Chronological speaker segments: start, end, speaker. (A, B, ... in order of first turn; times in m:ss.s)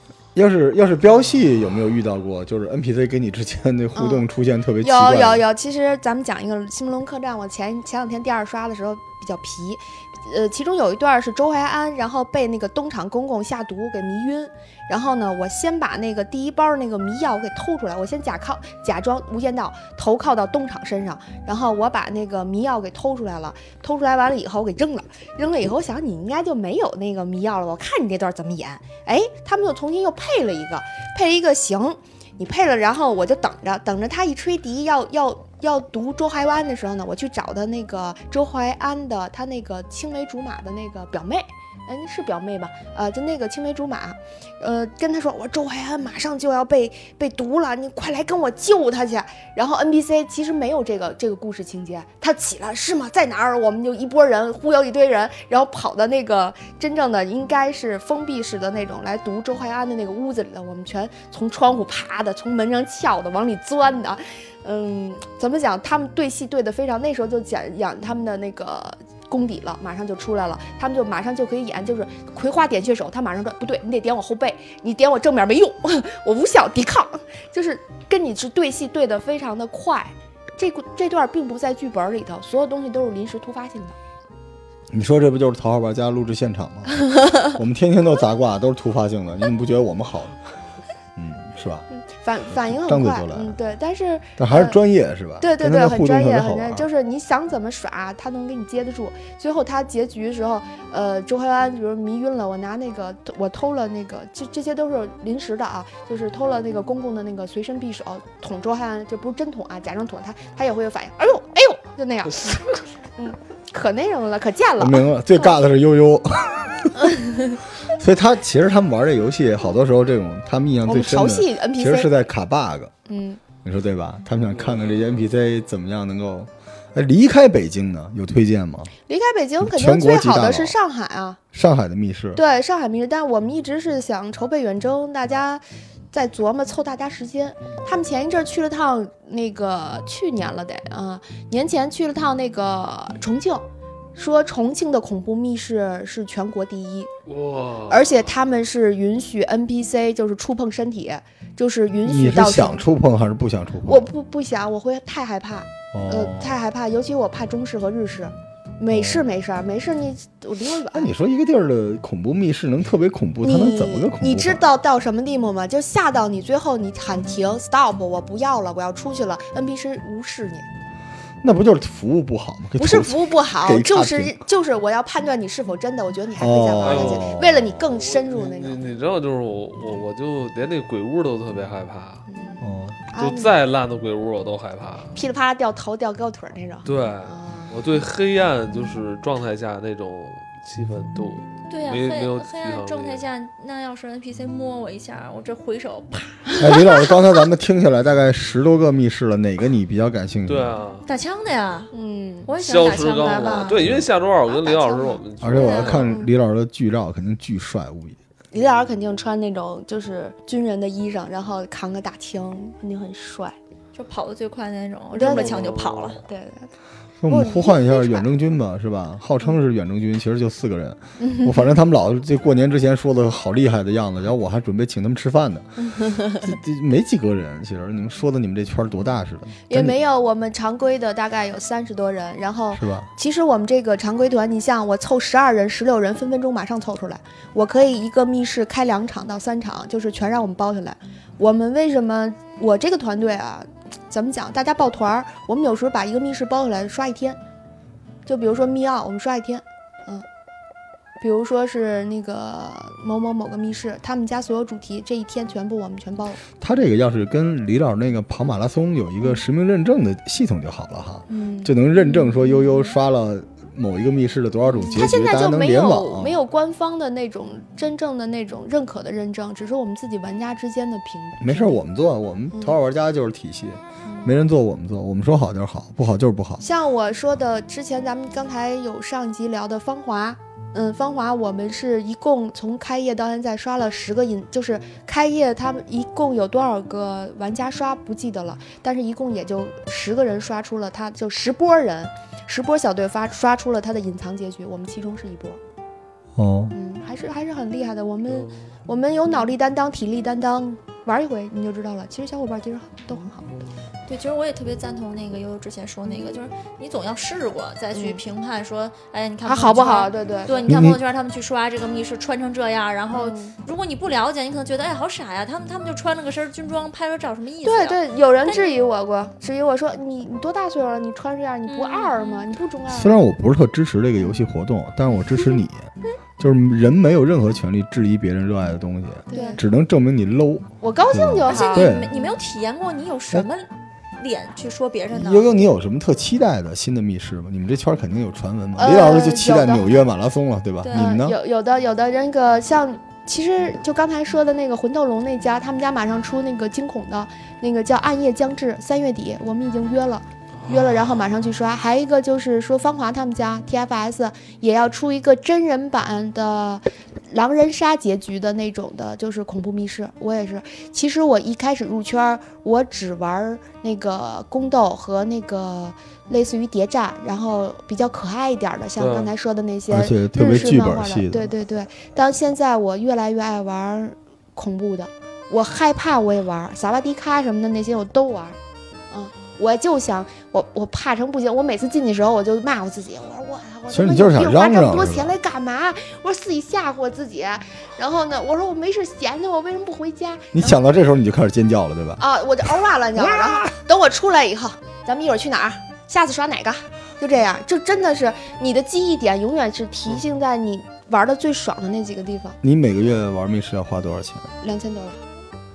0:00.3-0:05.4 A
0:03.9-0:04.2 B
0:04.8-1:24.0 B
1:24.9-1:30.4 A
1:31.2-1:31.9 A
1:31.9-1:34.8 B
1:32.5-1:33.6 A
1:34.4-1:36.8 A
1:35.4-1:52.6 B
1:52.3-1:52.7 C
1:53.2-1:55.5 B
1:54.8-1:57.0 A
1:58.0-2:02.9 A
2:00.8-2:02.1 B
2:03.1-2:03.4 B
2:03.6-2:08.9 A
2:04.6-2:05.1 C
2:09.1-2:11.4 B
2:09.6-2:10.7 A
2:11.5-2:12.4 A
2:12.3-2:23.6 B
2:24.2-2:27.1 B
2:27.3-2:28.3 C
2:27.9-2:32.8 B
2:32.0-2:34.1 A
2:33.8-2:41.1 B
2:35.9-2:36.6 A
2:38.9-2:39.2 A
2:40.9-2:44.6 A
2:43.4-2:50.6 B
2:51.4-2:54.4 A
2:52.8-2:58.9 B
2:56.4-2:57.7 A
2:56.8-3:02.2 C
3:02.3-3:03.5 B
3:02.6-3:03.0 A
3:03.2-3:05.1 C
3:05.1-3:07.7 B
3:06.8-3:13.2 C
3:11.7-3:16.8 D
3:16.6-3:20.8 A
3:20.5-3:21.1 C
3:21.0-3:21.9 D
3:21.9-3:23.7 B
3:22.4-3:23.8 D
3:22.6-3:26.2 C
3:23.8-3:24.1 A
3:24.6-3:25.2 B
3:25.4-3:28.2 A
3:25.5-3:26.1 D
3:28.5-3:33.5 B
3:33.9-3:36.2 D
3:35.1-3:35.7 B
3:35.2-3:36.2 C
3:36.3-3:36.7 B
3:37.2-3:45.8 A
3:37.3-3:38.3 B
3:41.2-3:41.7 B
3:45.9-3:46.4 B
3:46.3-3:50.0 A
3:49.7-4:07.4 B
3:52.7-3:53.1 A
4:08.2-4:10.2 B
4:11.2-4:16.4 B
4:16.6-4:26.4 A
4:21.3-4:22.9 B
4:24.7-4:31.8 B
4:31.4-4:36.6 A
4:32.5-4:32.8 B
4:36.6-4:55.6 B
4:56.4-4:56.7 A
4:56.7-5:03.5 B
4:58.3-4:58.6 C
5:04.1-5:18.7 D
5:07.9-5:08.2 B
5:09.4-5:10.7 B
5:10.6-5:11.0 A
5:13.1-5:13.6 B
5:17.6-5:23.2 B
5:21.7-5:22.5 D
5:22.9-5:32.1 A
5:29.3-5:29.6 B
5:30.8-5:32.4 B
5:31.4-5:35.5 D
5:35.1-5:41.3 A
5:38.8-5:40.0 B
5:40.8-5:41.2 D
5:40.9-6:18.6 B
5:50.6-5:51.0 C
6:09.0-6:09.3 C
6:09.9-6:11.5 A
6:19.1-6:30.8 B
6:23.9-6:25.3 A
6:30.5-6:32.2 A
6:32.2-6:42.6 B
6:33.2-6:33.6 A
6:42.6-6:44.5 A
6:44.6-6:45.2 B